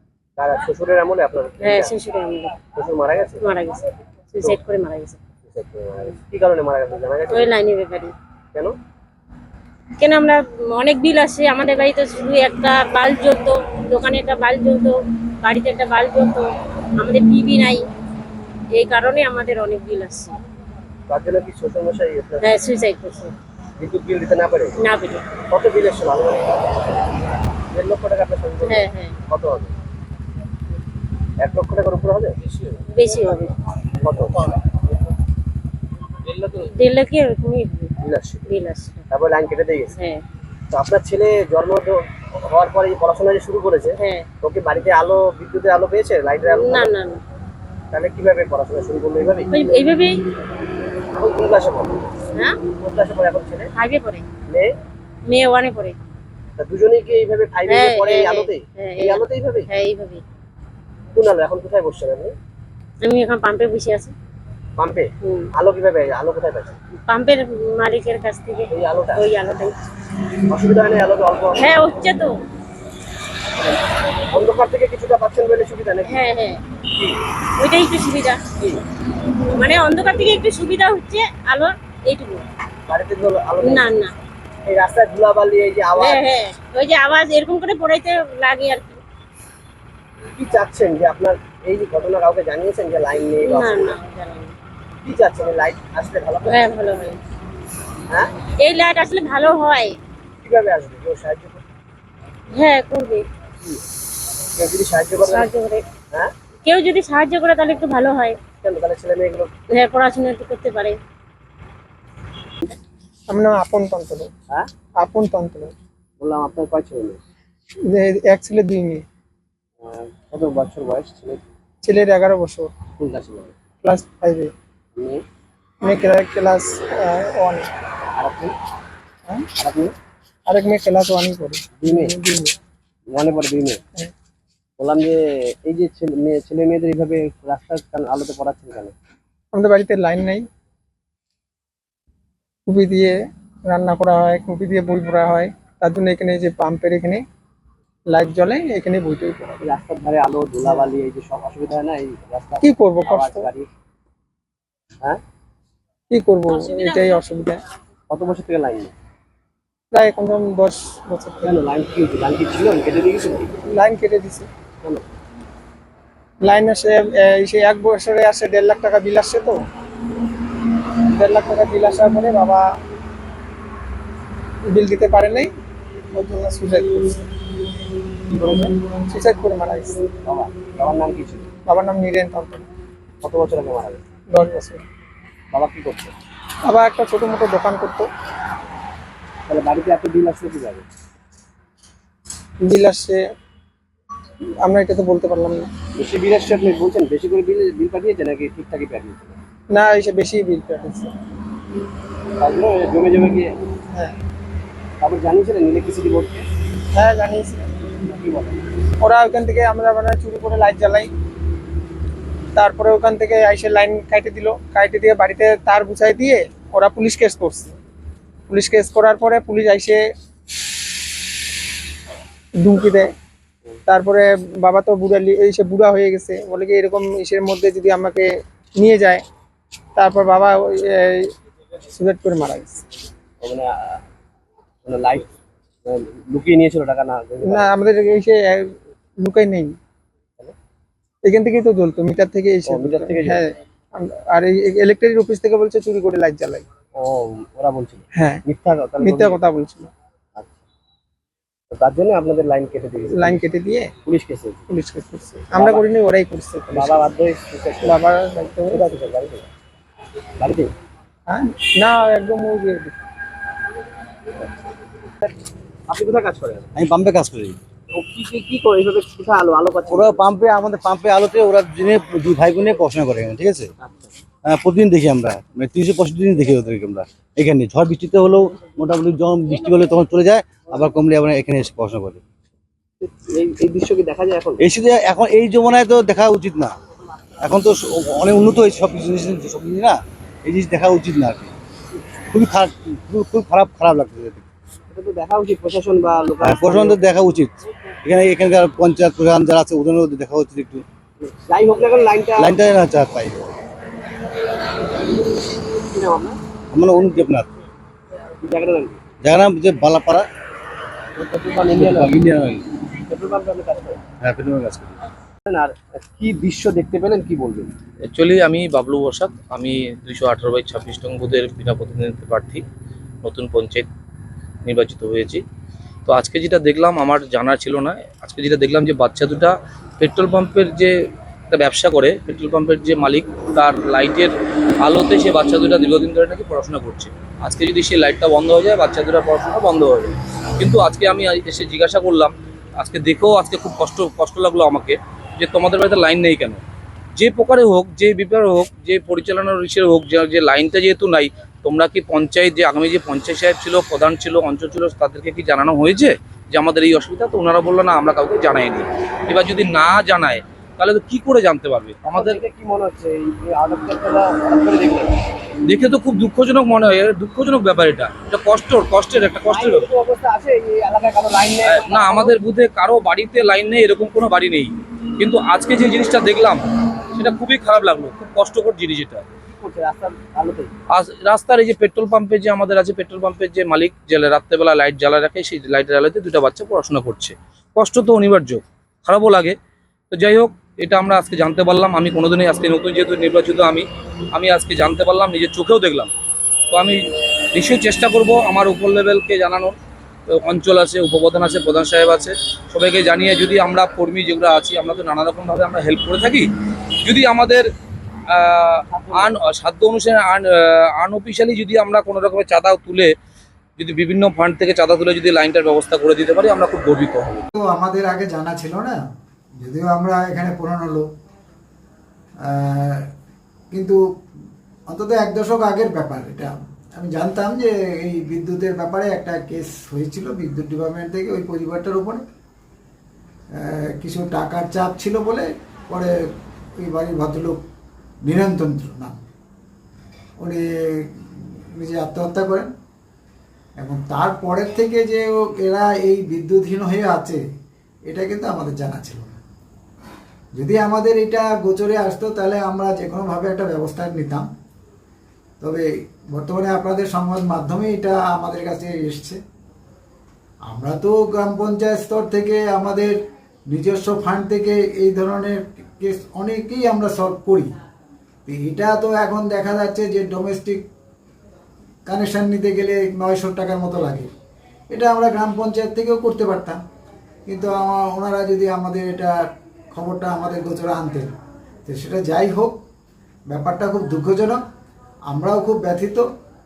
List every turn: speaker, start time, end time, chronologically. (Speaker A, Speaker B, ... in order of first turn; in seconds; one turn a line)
Speaker A: 0.4-2.0
Speaker B: 1.6-2.6
Speaker A: 2.7-3.5
Speaker B: 3.4-3.8
Speaker B: 4.3-5.2
Speaker A: 5.5-7.5
Speaker B: 7.3-8.1
Speaker B: 10.0-14.9
Speaker B: 15.4-16.4
Speaker B: 17.0-17.8
Speaker B: 18.7-20.4
Speaker A: 21.1-22.6
Speaker B: 22.4-23.3
Speaker A: 23.8-24.7
Speaker B: 24.8-25.3
Speaker A: 25.4-27.0
Speaker A: 27.7-29.7
Speaker B: 28.6-29.1
Speaker A: 31.4-32.3
Speaker B: 32.9-33.5
Speaker A: 34.0-34.3
Speaker B: 36.6-37.9
Speaker A: 38.0-38.5
Speaker B: 38.5-39.1
Speaker A: 39.1-39.9
Speaker B: 40.0-40.2
Speaker A: 40.7-47.0
Speaker B: 44.0-44.3
Speaker B: 46.4-47.2
Speaker A: 47.9-49.6
Speaker B: 49.5-50.2
Speaker A: 51.1-52.1
Speaker B: 52.3-52.6
Speaker A: 52.7-53.7
Speaker B: 53.8-54.2
Speaker B: 55.3-55.9
Speaker A: 56.6-59.7
Speaker B: 57.7-60.2
Speaker A: 61.1-62.3
Speaker B: 63.0-64.1
Speaker A: 64.8-66.8
Speaker B: 65.2-65.5
Speaker B: 67.1-69.7
Speaker A: 68.7-69.3
Speaker A: 70.5-71.7
Speaker B: 71.6-72.3
Speaker A: 74.3-76.2
Speaker B: 76.0-76.6
Speaker B: 77.6-78.4
Speaker B: 79.5-82.4
Speaker A: 82.9-84.1
Speaker B: 83.6-84.1
Speaker A: 84.6-86.3
Speaker B: 86.0-89.0
Speaker A: 90.3-94.0
Speaker B: 93.4-94.5
Speaker A: 95.0-97.0
Speaker B: 96.4-97.2
Speaker B: 98.6-99.9
Speaker A: 100.4-101.6
Speaker B: 102.5-103.2
Speaker A: 104.5-105.5
Speaker B: 105.2-105.8
Speaker B: 106.6-108.4
Speaker A: 108.6-109.5
Speaker B: 109.7-111.0
Speaker C: 113.3-114.3
Speaker C: 115.0-115.7
Speaker A: 116.2-117.2
Speaker C: 117.8-119.0
Speaker A: 119.8-121.4
Speaker C: 121.8-122.7
Speaker A: 123.0-123.5
Speaker C: 123.8-124.5
Speaker A: 125.0-125.2
Speaker C: 125.8-127.7
Speaker A: 128.1-128.5
Speaker A: 129.6-129.9
Speaker C: 130.5-132.5
Speaker A: 131.8-132.1
Speaker A: 133.1-133.8
Speaker A: 134.8-138.9
Speaker C: 139.5-140.4
Speaker C: 142.7-147.2
Speaker C: 148.1-149.6
Speaker A: 149.6-153.7
Speaker C: 152.6-153.5
Speaker C: 156.1-157.6
Speaker B: 156.5-157.2
Speaker A: 158.1-158.9
Speaker C: 159.9-161.5
Speaker A: 161.4-163.5
Speaker C: 163.7-164.5
Speaker C: 166.4-169.6
Speaker C: 171.1-172.7
Speaker C: 174.7-175.5
Speaker C: 176.1-177.2
Speaker A: 178.3-178.7
Speaker C: 179.1-180.0
Speaker A: 180.2-181.5
Speaker C: 181.7-182.7
Speaker A: 183.2-184.0
Speaker C: 184.3-184.8
Speaker A: 185.5-186.1
Speaker C: 186.6-188.1
Speaker A: 189.5-190.8
Speaker C: 192.6-193.2
Speaker C: 194.6-195.7
Speaker A: 195.9-199.3
Speaker C: 199.7-201.1
Speaker A: 202.4-203.4
Speaker A: 205.0-206.4
Speaker C: 206.9-207.7
Speaker A: 208.0-208.6
Speaker C: 209.0-211.1
Speaker C: 212.5-217.7
Speaker C: 218.5-220.0
Speaker C: 222.6-223.1
Speaker C: 223.9-229.2
Speaker C: 230.0-231.3
Speaker C: 231.9-232.8
Speaker A: 233.4-234.0
Speaker A: 234.8-235.3
Speaker A: 235.8-237.8
Speaker C: 237.4-239.8
Speaker C: 241.2-246.7
Speaker A: 242.7-243.4
Speaker A: 246.9-249.4
Speaker C: 248.1-248.4
Speaker C: 249.0-249.9
Speaker A: 251.7-253.4
Speaker C: 253.1-253.9
Speaker A: 254.0-254.6
Speaker C: 254.7-257.0
Speaker A: 255.5-255.9
Speaker A: 256.7-258.0
Speaker C: 257.8-259.0
Speaker A: 258.7-259.5
Speaker A: 260.4-260.7
Speaker C: 261.3-262.9
Speaker A: 265.9-266.7
Speaker D: 266.8-267.6
Speaker A: 267.9-270.2
Speaker D: 269.9-273.6
Speaker A: 273.8-274.1
Speaker D: 274.5-282.2
Speaker A: 283.0-284.6
Speaker D: 284.6-286.7
Speaker D: 287.4-291.5
Speaker D: 292.3-294.4
Speaker A: 294.9-297.0
Speaker D: 296.4-300.8
Speaker A: 301.2-302.6
Speaker D: 302.4-303.4
Speaker A: 305.8-306.4
Speaker D: 306.7-307.5
Speaker A: 308.4-309.0
Speaker D: 309.2-310.3
Speaker A: 311.2-312.3
Speaker D: 311.9-312.6
Speaker A: 313.1-314.0
Speaker D: 314.2-315.0
Speaker A: 315.4-317.7
Speaker E: 318.0-322.6
Speaker E: 323.2-323.9
Speaker E: 324.6-325.4
Speaker E: 326.1-330.9
Speaker E: 331.5-346.6
Speaker E: 347.1-362.4
Speaker A: 362.1-365.1
Speaker E: 365.7-369.9
Speaker A: 369.4-372.4
Speaker E: 371.6-376.6
Speaker E: 377.1-379.2
Speaker A: 379.6-380.7
Speaker E: 380.9-389.5
Speaker E: 390.1-396.1
Speaker E: 396.7-397.0
Speaker E: 397.5-399.8
Speaker E: 400.3-406.5
Speaker E: 407.0-407.7
Speaker E: 408.3-413.1
Speaker A: 408.9-409.4
Speaker E: 413.8-417.4
Speaker F: 417.5-419.0
Speaker F: 419.6-421.1
Speaker F: 422.4-423.1
Speaker F: 423.7-424.0
Speaker F: 424.9-432.2
Speaker F: 433.6-436.1
Speaker F: 436.8-437.6
Speaker F: 438.2-439.2
Speaker F: 440.4-442.7
Speaker F: 443.8-447.4
Speaker F: 448.1-449.4
Speaker F: 450.6-454.5
Speaker F: 455.6-459.4
Speaker F: 460.7-463.2
Speaker F: 463.7-467.7
Speaker F: 468.5-470.8
Speaker F: 472.1-474.3
Speaker F: 474.9-476.8
Speaker F: 477.5-479.3
Speaker F: 479.9-481.3
Speaker F: 481.9-482.8
Speaker F: 483.5-484.6
Speaker F: 485.3-486.2